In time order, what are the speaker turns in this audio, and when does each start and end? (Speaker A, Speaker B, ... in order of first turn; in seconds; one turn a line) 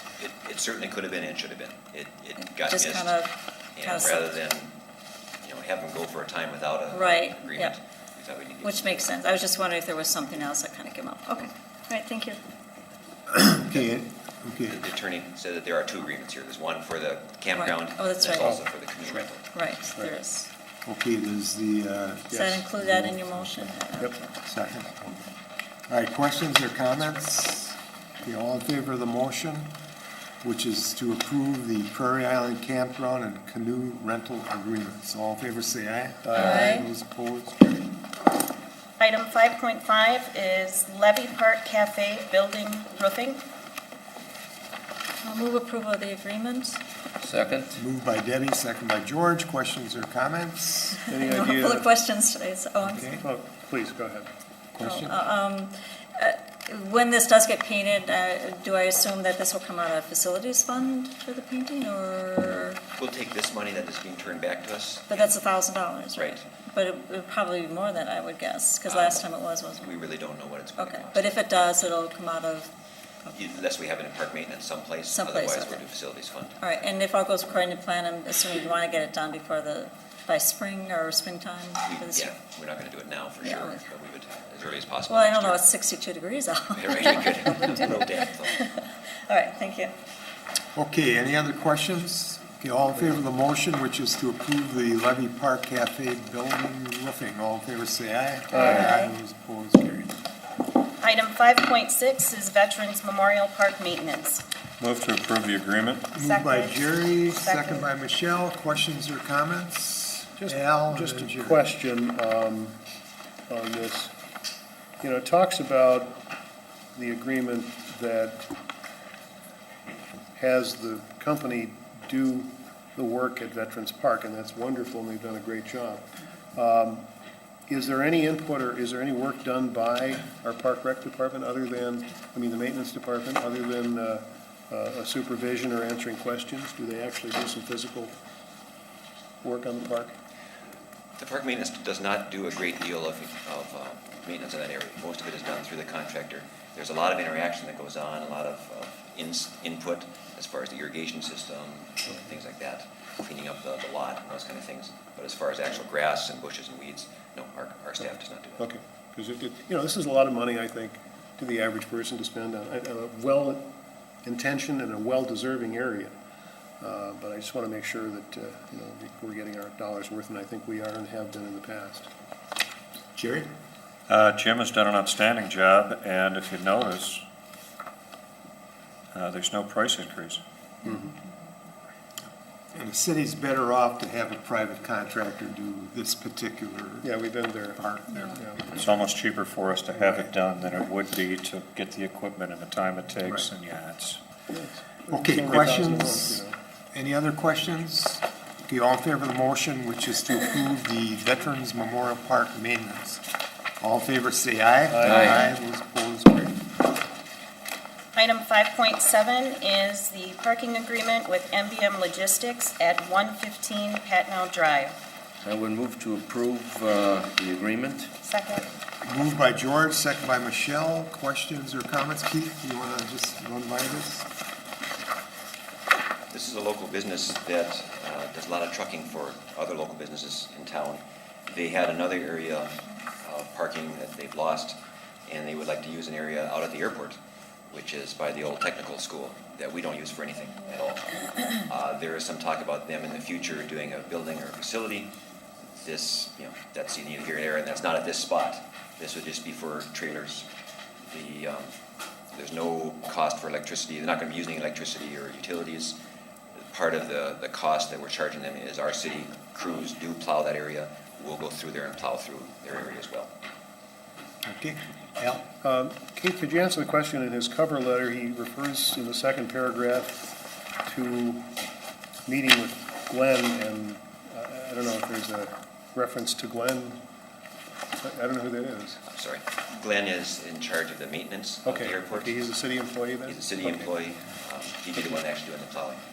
Speaker A: 0.2-3.2
Speaker B: 2.4-4.3
Speaker A: 3.8-4.7
Speaker A: 5.4-9.0
Speaker B: 6.9-7.7
Speaker B: 8.6-12.4
Speaker C: 13.3-14.8
Speaker A: 14.7-19.4
Speaker B: 17.6-18.6
Speaker D: 18.4-19.2
Speaker B: 19.5-20.5
Speaker C: 20.8-23.2
Speaker D: 22.3-22.6
Speaker B: 22.3-24.3
Speaker C: 24.4-25.1
Speaker C: 25.9-29.7
Speaker C: 30.4-37.8
Speaker D: 36.3-36.8
Speaker B: 36.3-36.9
Speaker E: 39.0-43.4
Speaker B: 45.2-46.8
Speaker F: 47.3-47.7
Speaker C: 47.7-51.0
Speaker D: 51.1-51.9
Speaker B: 51.1-53.2
Speaker C: 52.8-53.2
Speaker D: 53.2-54.3
Speaker C: 54.7-55.2
Speaker B: 54.8-62.8
Speaker A: 63.0-65.3
Speaker B: 65.1-70.0
Speaker A: 66.2-66.4
Speaker A: 68.8-69.2
Speaker A: 69.8-71.5
Speaker B: 70.8-72.7
Speaker A: 73.3-76.6
Speaker B: 75.1-75.9
Speaker B: 76.6-82.3
Speaker A: 81.9-85.6
Speaker B: 83.4-83.8
Speaker B: 85.1-89.9
Speaker A: 86.8-88.6
Speaker C: 90.7-100.2
Speaker B: 98.5-99.1
Speaker E: 101.0-104.4
Speaker G: 104.8-106.1
Speaker C: 106.1-111.6
Speaker E: 106.2-107.9
Speaker D: 110.4-112.8
Speaker D: 113.5-114.1
Speaker D: 115.0-116.2
Speaker D: 117.0-118.5
Speaker D: 120.3-127.0
Speaker D: 127.7-138.2
Speaker D: 139.4-140.2
Speaker A: 141.2-158.7
Speaker D: 158.6-163.7
Speaker D: 164.2-166.2
Speaker D: 166.8-172.1
Speaker C: 173.2-173.5
Speaker G: 174.1-177.2
Speaker G: 179.1-180.4
Speaker D: 180.8-181.1
Speaker C: 182.7-187.1
Speaker D: 187.0-188.7
Speaker C: 187.8-188.9
Speaker G: 188.7-194.2
Speaker D: 194.5-196.6
Speaker C: 195.1-196.4
Speaker C: 196.9-203.2
Speaker C: 203.8-206.6
Speaker D: 204.9-205.6
Speaker E: 208.2-214.9
Speaker F: 215.5-218.0
Speaker E: 218.2-218.7
Speaker C: 219.0-224.3
Speaker A: 226.3-237.2
Speaker A: 237.7-245.1
Speaker A: 245.8-250.5
Speaker A: 251.1-251.7
Speaker A: 252.3-256.0
Speaker A: 256.7-263.3
Speaker C: 264.4-265.5
Speaker D: 265.6-270.3
Speaker D: 270.9-271.5
Speaker D: 272.2-277.0
Speaker D: 278.0-279.0
Speaker A: 279.1-282.5
Speaker D: 281.6-283.9
Speaker A: 283.2-286.0